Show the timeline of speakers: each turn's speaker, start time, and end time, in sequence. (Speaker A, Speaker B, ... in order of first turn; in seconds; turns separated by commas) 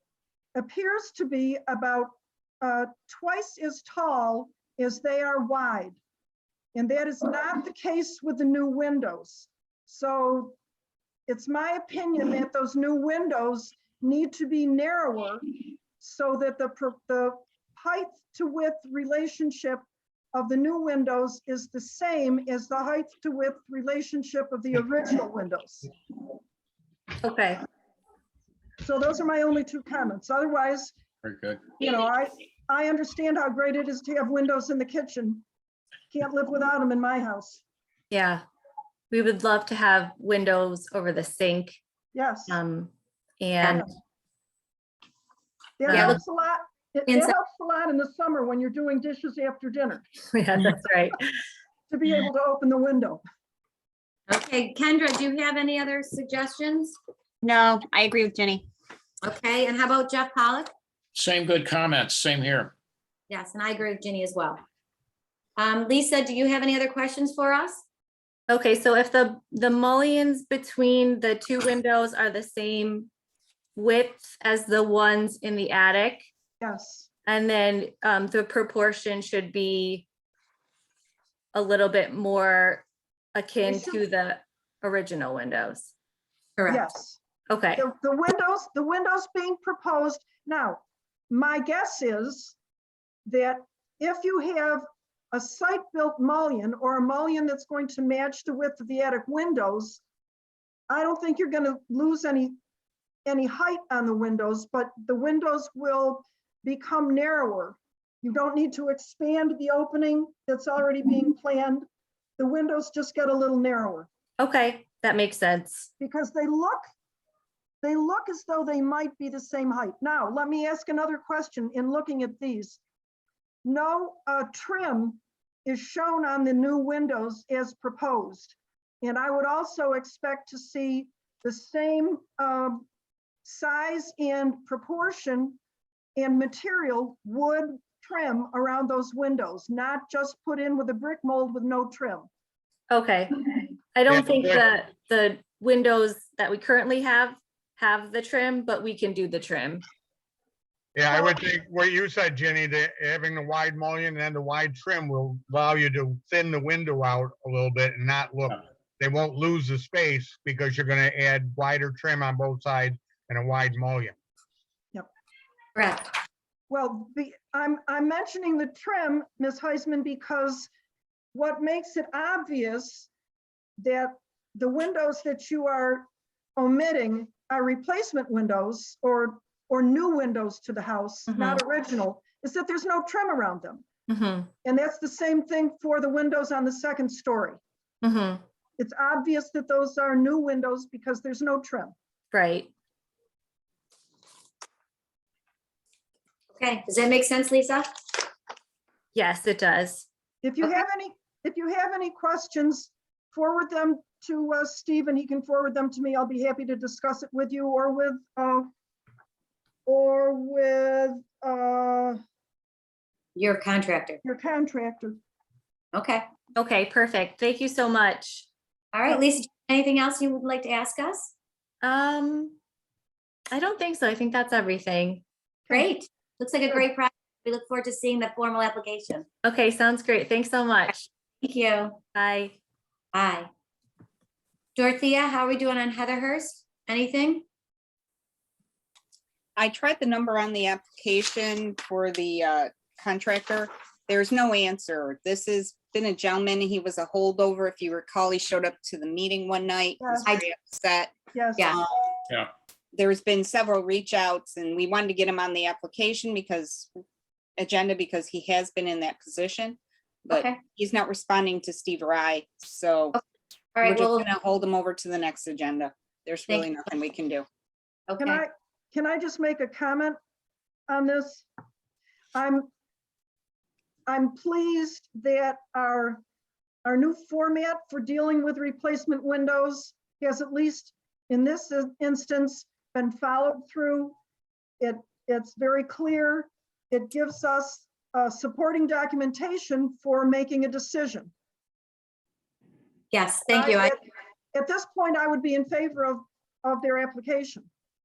Speaker A: 0.5-6.0, Speaker A: 6.7-10.6, Speaker A: 11.3-25.9, Speaker B: 27.2-27.6, Speaker A: 28.8-30.9, Speaker C: 31.2-31.6, Speaker A: 31.8-35.4, Speaker A: 36.1-37.6, Speaker B: 38.1-38.4, Speaker B: 39.1-41.8, Speaker A: 42.1-42.6, Speaker B: 42.5-43.9, Speaker A: 45.8-50.1, Speaker D: 45.9-46.2, Speaker B: 45.9-46.2, Speaker D: 47.1-47.4, Speaker B: 50.3-51.3, Speaker A: 51.9-53.2, Speaker D: 54.3-57.0, Speaker E: 57.4-58.6, Speaker D: 59.2-60.7, Speaker C: 61.1-62.7, Speaker D: 63.3-64.6, Speaker D: 65.6-67.8, Speaker B: 68.5-73.1, Speaker B: 73.8-76.2, Speaker A: 76.6-77.1, Speaker B: 77.2-80.0, Speaker B: 81.5-85.9, Speaker A: 83.7-84.0, Speaker D: 86.6-86.9, Speaker A: 86.7-87.2, Speaker B: 87.5-87.8, Speaker A: 87.8-92.5, Speaker A: 93.2-100.0, Speaker A: 100.9-102.5, Speaker A: 103.2-111.8, Speaker A: 112.4-114.1, Speaker B: 114.4-115.9, Speaker A: 116.0-116.9, Speaker A: 117.8-122.8, Speaker A: 123.6-132.8, Speaker A: 133.4-135.6, Speaker A: 136.2-142.3, Speaker B: 142.9-149.8, Speaker F: 144.1-144.6, Speaker F: 150.9-164.1, Speaker D: 165.8-166.1, Speaker A: 166.7-170.7, Speaker A: 171.3-173.1, Speaker A: 173.8-183.8, Speaker B: 181.3-181.6, Speaker B: 184.1-184.5, Speaker A: 184.6-187.6, Speaker B: 188.0-188.4, Speaker A: 188.8-191.9, Speaker B: 192.3-192.7, Speaker D: 196.6-198.0, Speaker B: 199.1-200.1, Speaker A: 200.4-208.7, Speaker A: 209.8-212.2, Speaker D: 213.3-214.2, Speaker A: 214.2-215.2, Speaker D: 215.9-216.3, Speaker B: 216.6-218.5, Speaker D: 218.9-221.3, Speaker B: 221.8-222.6, Speaker B: 223.5-225.2, Speaker D: 225.7-229.2, Speaker B: 229.4-231.1, Speaker D: 231.4-232.0, Speaker B: 232.1-232.6, Speaker D: 233.1-233.5, Speaker D: 234.8-237.4, Speaker E: 239.6-251.8, Speaker A: 250.0-250.3, Speaker A: 251.3-251.7, Speaker E: 252.9-256.9, Speaker E: 257.6-263.1, Speaker D: 260.3-260.6, Speaker D: 263.8-264.3, Speaker E: 263.8-267.4, Speaker D: 268.1-268.4, Speaker A: 268.2-270.2, Speaker A: 270.9-271.4, Speaker A: 272.3-272.7, Speaker A: 274.1-276.2, Speaker A: 276.8-284.1, Speaker A: 284.8-291.3, Speaker D: 293.1-293.9, Speaker A: 293.5-294.0, Speaker A: 294.5-297.7